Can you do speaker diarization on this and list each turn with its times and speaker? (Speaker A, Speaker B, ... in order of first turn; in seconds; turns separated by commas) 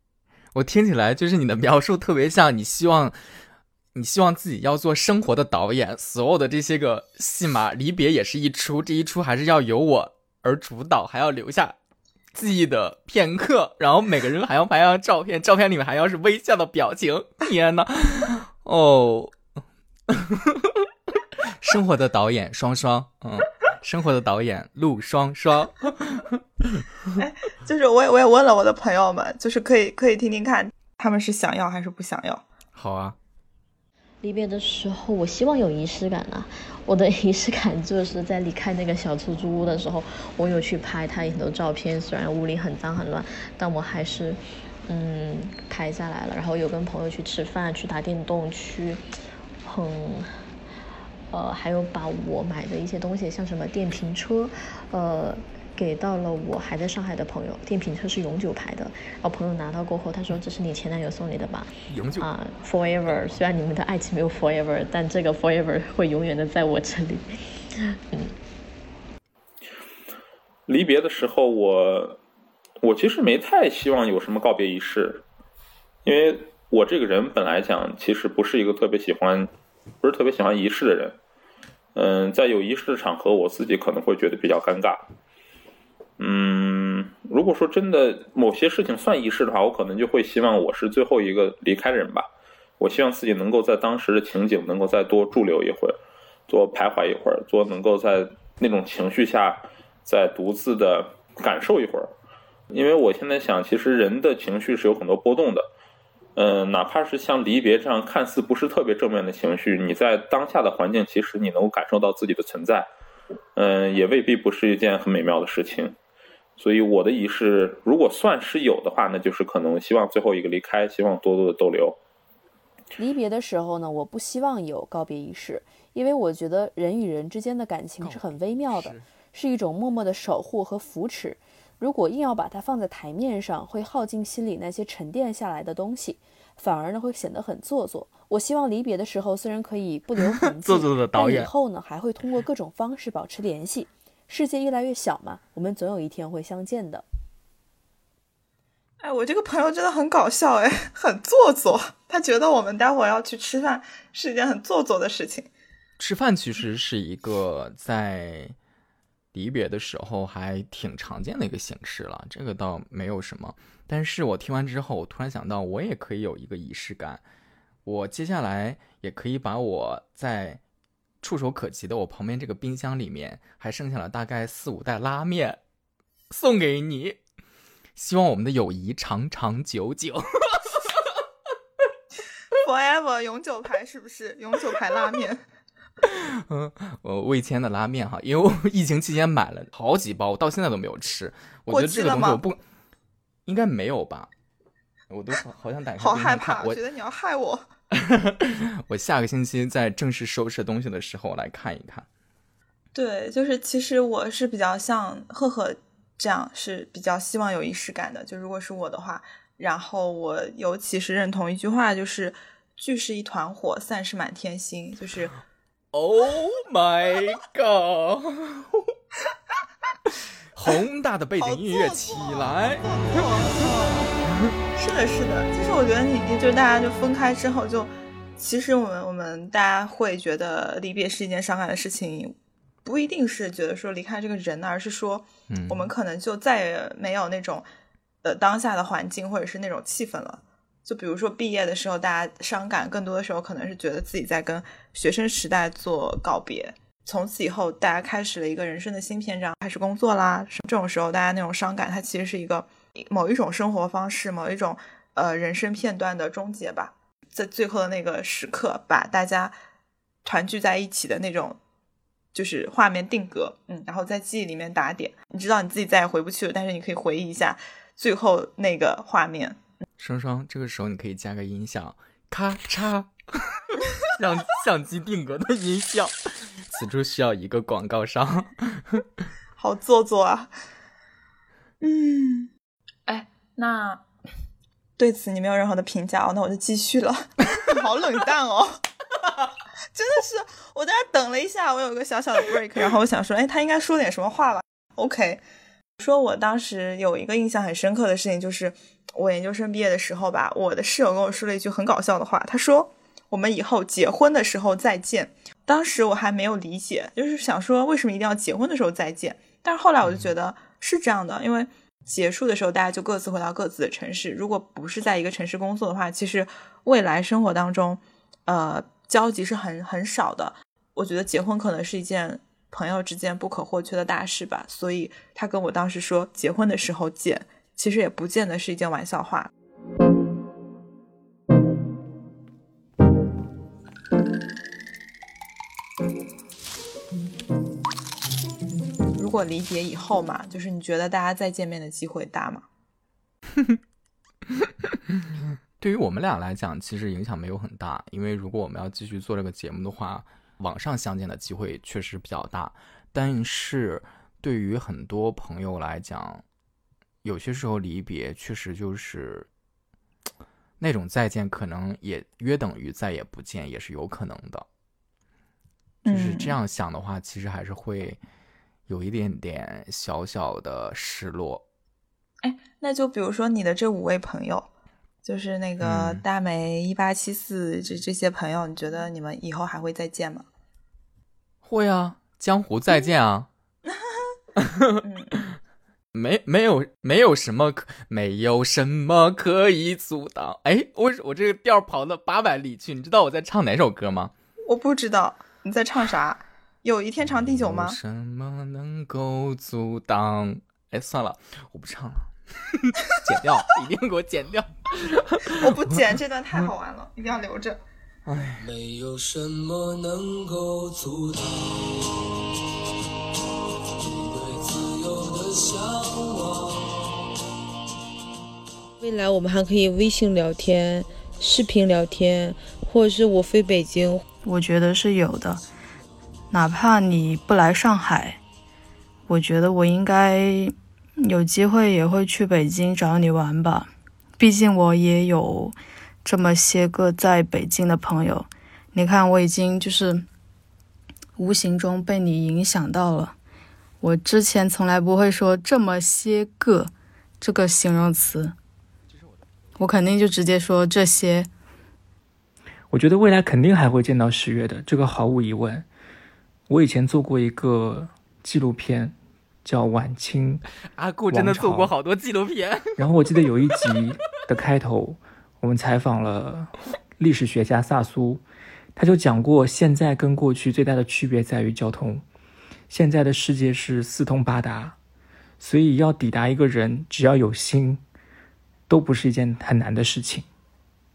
Speaker A: 0.5-3.2, Speaker A: 3.9-11.8, Speaker A: 12.3-19.4, Speaker A: 20.1-20.9, Speaker A: 21.4-26.8, Speaker B: 27.2-32.4, Speaker A: 32.7-33.2, Speaker C: 34.2-49.0, Speaker C: 49.6-50.4, Speaker C: 51.3-68.3, Speaker A: 61.9-62.3, Speaker D: 70.7-72.2, Speaker D: 72.8-75.2, Speaker D: 76.0-79.5, Speaker D: 80.0-81.2, Speaker D: 81.9-85.0, Speaker D: 86.2-92.3, Speaker D: 92.8-96.0, Speaker D: 96.5-102.1, Speaker D: 102.7-105.7, Speaker D: 106.3-112.9, Speaker D: 113.5-116.0, Speaker D: 116.6-122.0, Speaker E: 123.0-147.0, Speaker A: 128.0-129.1, Speaker A: 140.2-141.5, Speaker B: 149.0-155.5, Speaker A: 156.0-158.5, Speaker A: 159.3-167.2, Speaker A: 167.8-170.6, Speaker A: 171.2-175.6, Speaker A: 176.3-177.2, Speaker A: 177.9-180.7, Speaker B: 182.5-185.4, Speaker A: 186.0-192.6, Speaker B: 191.7-192.4, Speaker A: 193.4-194.3, Speaker A: 195.1-196.8, Speaker B: 196.0-197.6, Speaker A: 198.0-202.1, Speaker B: 202.9-215.3, Speaker A: 215.9-218.9, Speaker A: 220.5-222.9, Speaker B: 221.4-224.1, Speaker B: 224.7-237.6, Speaker A: 235.5-235.8, Speaker B: 238.2-259.5, Speaker B: 260.2-261.6, Speaker B: 262.3-269.7, Speaker A: 270.0-279.0, Speaker B: 279.6-280.5, Speaker B: 281.8-282.5, Speaker B: 283.1-284.0, Speaker B: 285.0-288.8, Speaker B: 289.9-295.4, Speaker B: 296.0-329.5, Speaker B: 339.2-342.6, Speaker A: 344.5-356.4, Speaker A: 357.2-359.5, Speaker A: 360.8-364.6, Speaker B: 366.0-366.6, Speaker A: 366.1-368.2, Speaker A: 368.9-371.6, Speaker B: 372.4-374.7, Speaker B: 375.2-380.4, Speaker A: 375.8-376.2, Speaker A: 381.6-383.5, Speaker A: 384.6-385.0, Speaker B: 385.0-385.4, Speaker A: 386.1-394.3, Speaker B: 394.6-398.0, Speaker A: 397.2-405.9, Speaker B: 405.5-407.8, Speaker A: 408.2-408.7, Speaker F: 408.6-412.1, Speaker F: 414.0-417.0, Speaker G: 419.0-424.2, Speaker H: 424.4-425.6, Speaker H: 426.5-428.4, Speaker H: 429.3-440.2, Speaker H: 441.4-443.4, Speaker H: 444.0-448.5, Speaker H: 449.8-451.5, Speaker I: 452.9-455.9, Speaker I: 456.7-460.6, Speaker A: 460.9-463.1, Speaker I: 461.3-461.9, Speaker I: 463.0-468.4, Speaker A: 463.8-464.4, Speaker I: 468.9-472.2, Speaker I: 472.9-475.0, Speaker I: 475.6-478.0, Speaker I: 478.9-480.4